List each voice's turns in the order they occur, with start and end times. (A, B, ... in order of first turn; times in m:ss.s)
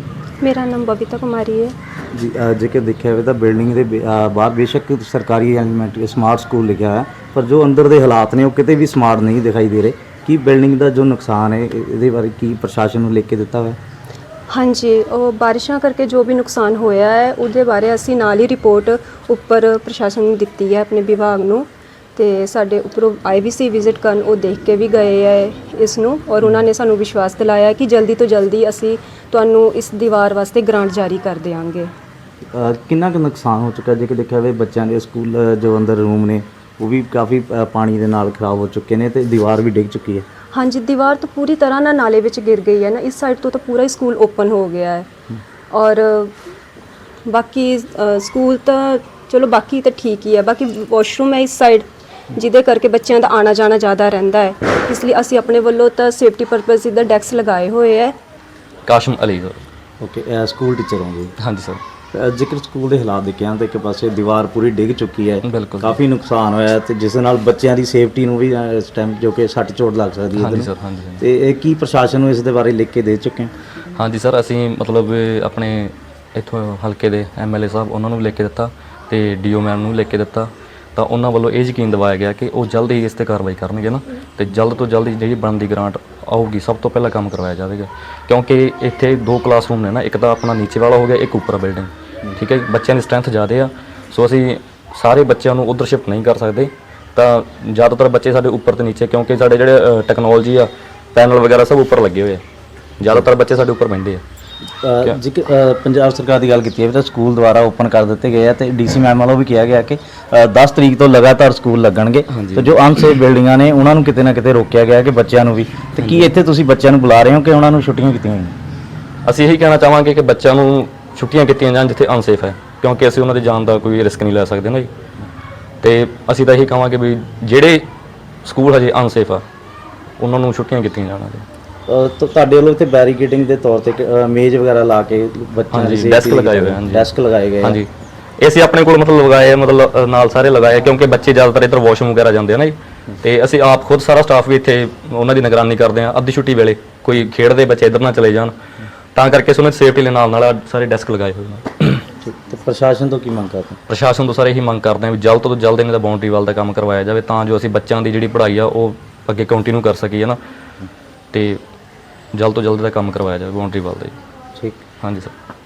0:00.4-0:01.7 A
0:02.1-0:13.8 B
0:14.5-0:31.9 A
0:32.5-0:40.2 B
0:40.5-0:45.0 A
0:45.7-0:46.3 A
0:47.2-0:58.2 A
0:58.8-0:59.6 C
1:00.0-1:01.3 B
1:01.4-1:01.8 C
1:02.1-1:13.5 B
1:05.4-1:06.0 C
1:10.4-1:11.2 C
1:13.9-1:42.4 C
1:43.0-1:44.2 C
1:44.8-1:58.5 B
1:52.3-1:52.8 C
1:56.0-1:56.2 C
1:59.2-2:04.9 C
2:05.8-2:07.8 C
2:08.4-2:09.4 C
2:10.2-2:11.4 C
2:11.9-2:17.8 B
2:15.7-2:17.1 C
2:17.6-2:17.9 C
2:18.4-2:28.5 C
2:29.1-2:32.0 C
2:32.2-2:33.8 B
2:33.9-2:40.4 C
2:41.3-2:41.6 C
2:42.3-2:44.1 C
2:44.6-2:44.8 B
2:45.0-2:45.3 C